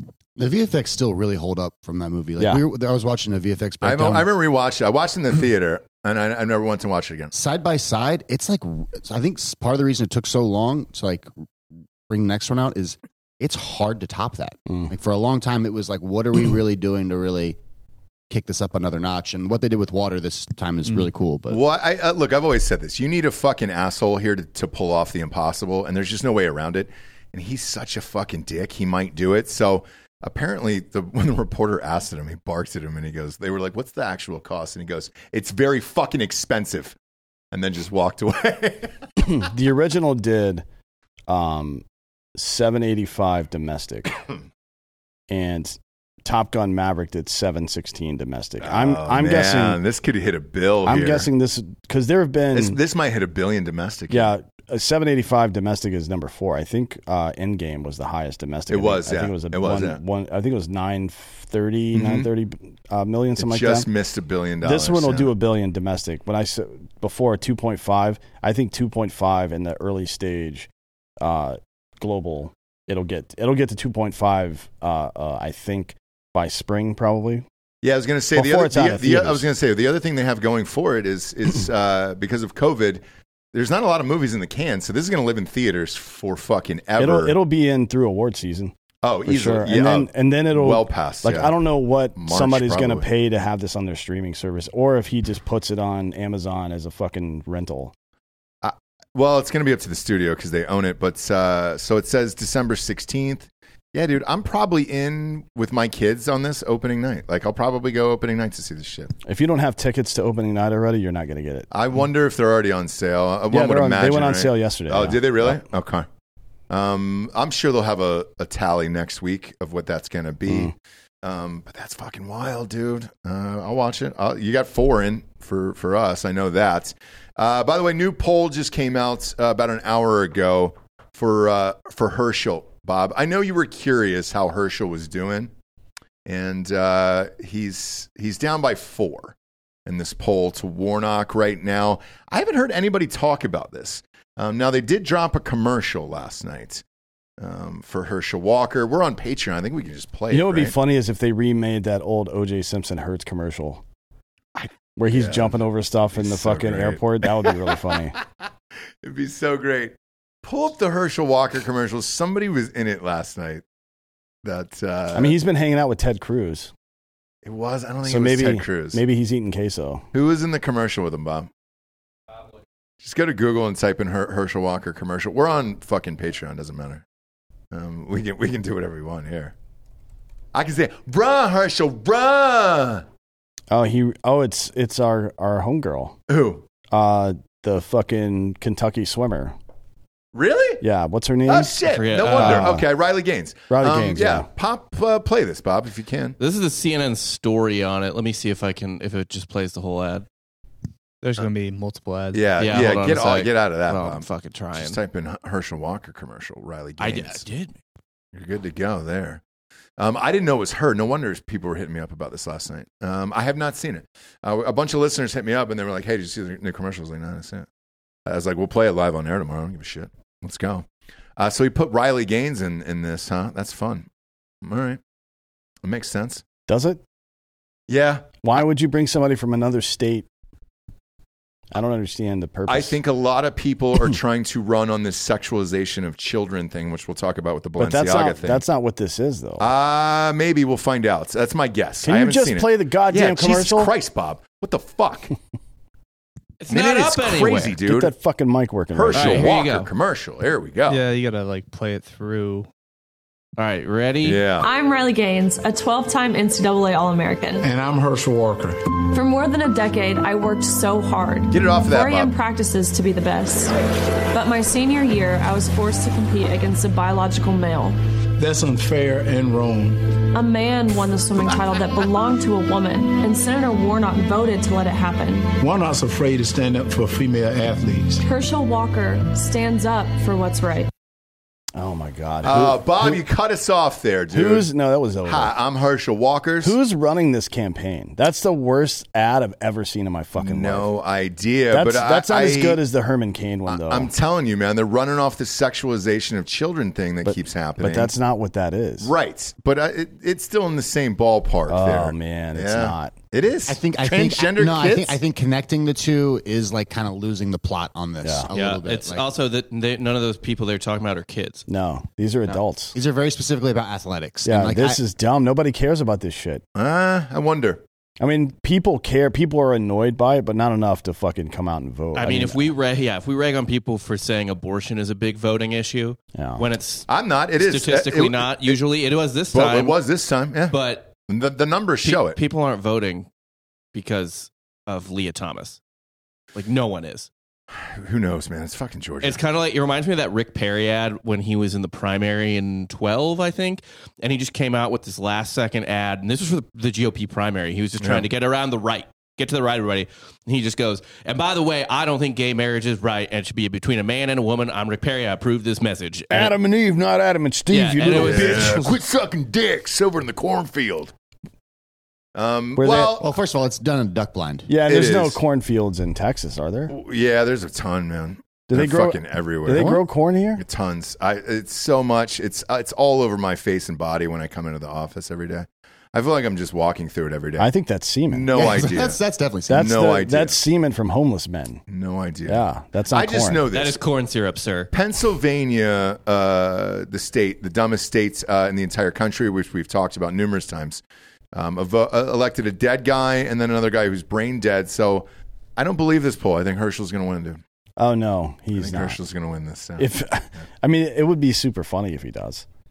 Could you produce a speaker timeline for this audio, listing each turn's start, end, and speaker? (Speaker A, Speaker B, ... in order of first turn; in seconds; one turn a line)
Speaker A: 0.3-4.3
Speaker B: 3.8-7.3
Speaker A: 7.3-11.3
Speaker A: 12.1-17.6
Speaker A: 18.3-21.6
Speaker B: 21.5-37.0
Speaker B: 37.5-39.0
Speaker C: 39.2-40.6
Speaker C: 41.3-41.8
Speaker C: 42.3-44.2
Speaker C: 45.3-49.8
Speaker B: 48.6-51.3
Speaker C: 50.9-52.8
Speaker B: 52.5-54.3
Speaker C: 54.1-63.9
Speaker B: 58.7-60.0
Speaker B: 61.9-62.3
Speaker B: 63.4-65.3
Speaker C: 64.6-70.7
Speaker C: 71.2-77.4
Speaker B: 77.8-83.0
Speaker C: 78.3-79.5
Speaker B: 83.5-87.3
Speaker C: 87.0-88.7
Speaker B: 89.0-91.5
Speaker C: 89.2-97.9
Speaker B: 92.2-93.0
Speaker B: 98.6-109.1
Speaker C: 109.2-111.7
Speaker B: 111.7-116.1
Speaker C: 113.5-115.6
Speaker B: 116.7-135.5
Speaker C: 120.5-120.7
Speaker B: 136.2-139.3
Speaker B: 139.8-146.8
Speaker B: 147.4-150.7
Speaker C: 150.3-153.8
Speaker B: 154.6-155.6
Speaker C: 154.9-158.1
Speaker B: 156.1-157.5
Speaker B: 159.0-163.6
Speaker B: 164.4-165.3
Speaker C: 165.1-166.7
Speaker B: 167.4-169.0
Speaker C: 168.0-170.0
Speaker B: 170.1-171.5
Speaker B: 173.0-177.0
Speaker B: 177.7-179.5
Speaker B: 180.5-183.0
Speaker C: 183.7-186.2
Speaker B: 186.3-186.6
Speaker C: 186.9-189.5
Speaker B: 190.3-190.8
Speaker C: 190.8-191.8
Speaker B: 191.5-196.3
Speaker D: 191.9-192.8
Speaker C: 192.3-192.8
Speaker C: 193.7-194.5
Speaker D: 196.4-200.2
Speaker E: 201.2-202.5
Speaker B: 202.3-207.4
Speaker D: 202.6-205.0
Speaker D: 207.0-207.8
Speaker B: 208.3-209.4
Speaker B: 210.0-217.7
Speaker B: 218.2-220.8
Speaker B: 221.4-224.1
Speaker B: 224.6-225.0
Speaker B: 225.8-226.4
Speaker C: 226.7-227.0
Speaker B: 227.9-228.4
Speaker C: 228.4-230.2
Speaker C: 231.7-233.0
Speaker B: 232.7-238.6
Speaker C: 237.8-239.7
Speaker B: 239.6-245.3
Speaker C: 242.0-243.9
Speaker D: 246.6-247.8
Speaker B: 246.7-248.1
Speaker C: 247.8-249.5
Speaker B: 248.9-251.0
Speaker D: 249.1-249.9
Speaker E: 250.9-252.7
Speaker D: 253.6-254.4
Speaker B: 254.2-254.7
Speaker F: 254.6-257.7
Speaker G: 257.6-258.8
Speaker F: 259.1-263.8
Speaker B: 261.5-262.3
Speaker F: 264.3-268.0
Speaker G: 268.4-270.1
Speaker F: 270.3-275.5
Speaker G: 275.6-278.2
Speaker F: 278.2-280.9
Speaker C: 281.7-283.2
Speaker B: 282.4-284.7
Speaker C: 284.3-285.5
Speaker B: 285.2-286.8
Speaker C: 286.6-290.9
Speaker B: 290.4-292.8
Speaker C: 291.7-294.1
Speaker B: 293.7-298.1
Speaker C: 297.2-299.1
Speaker B: 299.0-305.2
Speaker C: 301.7-303.1
Speaker A: 303.7-309.2
Speaker C: 308.2-308.5
Speaker D: 308.5-311.7
Speaker C: 311.7-312.9
Speaker A: 312.9-315.0
Speaker C: 314.4-316.6
Speaker B: 316.8-317.8
Speaker C: 318.2-322.7
Speaker D: 322.1-330.0
Speaker C: 326.3-326.6
Speaker B: 327.1-328.8
Speaker B: 329.5-330.8
Speaker D: 330.7-331.1
Speaker B: 331.3-332.4
Speaker D: 332.0-333.3
Speaker D: 333.9-335.8
Speaker D: 336.5-337.3
Speaker B: 337.7-339.4
Speaker D: 339.2-356.5
Speaker B: 348.0-348.2
Speaker C: 356.3-358.9
Speaker D: 357.7-358.9
Speaker B: 358.1-361.1
Speaker B: 362.3-363.3
Speaker C: 362.8-363.2
Speaker A: 363.2-364.7
Speaker C: 364.7-366.9
Speaker B: 364.9-365.4
Speaker B: 366.9-370.0
Speaker C: 368.7-370.6
Speaker B: 370.6-377.7
Speaker C: 377.6-378.6
Speaker B: 378.3-379.2
Speaker A: 378.5-379.9
Speaker C: 379.7-381.8
Speaker B: 379.7-380.6
Speaker B: 381.9-384.0
Speaker C: 382.4-383.6
Speaker D: 383.7-384.9
Speaker B: 384.9-391.0
Speaker B: 391.5-397.6
Speaker C: 398.0-399.2
Speaker B: 398.7-400.1
Speaker C: 400.0-402.6